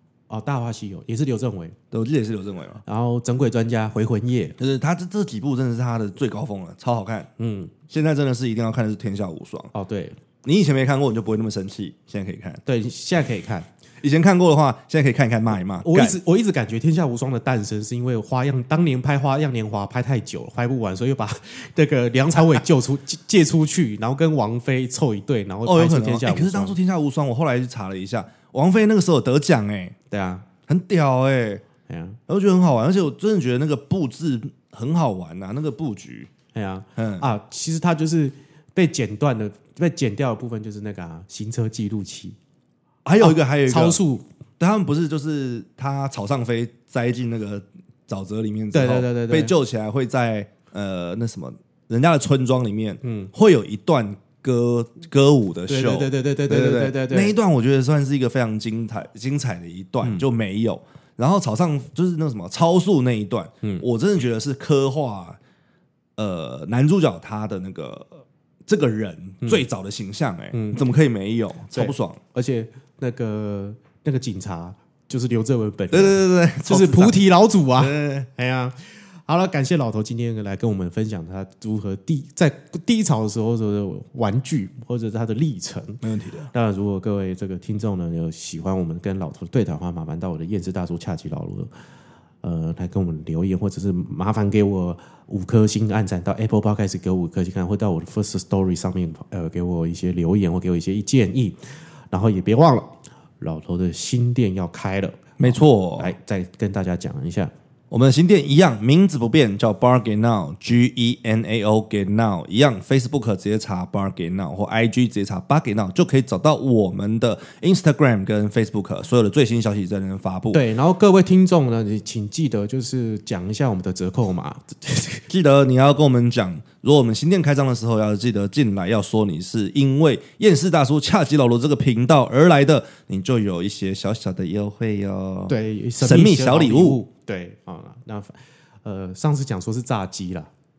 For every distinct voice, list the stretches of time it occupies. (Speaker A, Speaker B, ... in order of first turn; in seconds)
Speaker A: 0.3-1.8, 2.9-4.6, 7.4-7.7, 9.7-10.2, 12.7-13.7, 15.8-26.8, 30.1-30.5, 31.9-32.2, 36.5-42.4, 43.2-44.2, 48.7-49.5, 53.0-53.3, 55.7-57.3, 70.5-70.8, 71.7-91.7, 92.4-107.5, 120.5-125.2, 135.5-140.5
Speaker B: 1.9-2.8, 4.6-7.3, 7.9-9.7, 10.4-12.6, 14.0-16.2, 25.6-29.9, 30.7-31.6, 32.3-36.3, 37.0-37.3, 43.0-44.0, 44.6-65.4, 66.2-72.2, 75.9-77.2, 77.8-78.3, 86.0-86.5, 105.4-106.1, 107.9-120.6, 125.3-137.0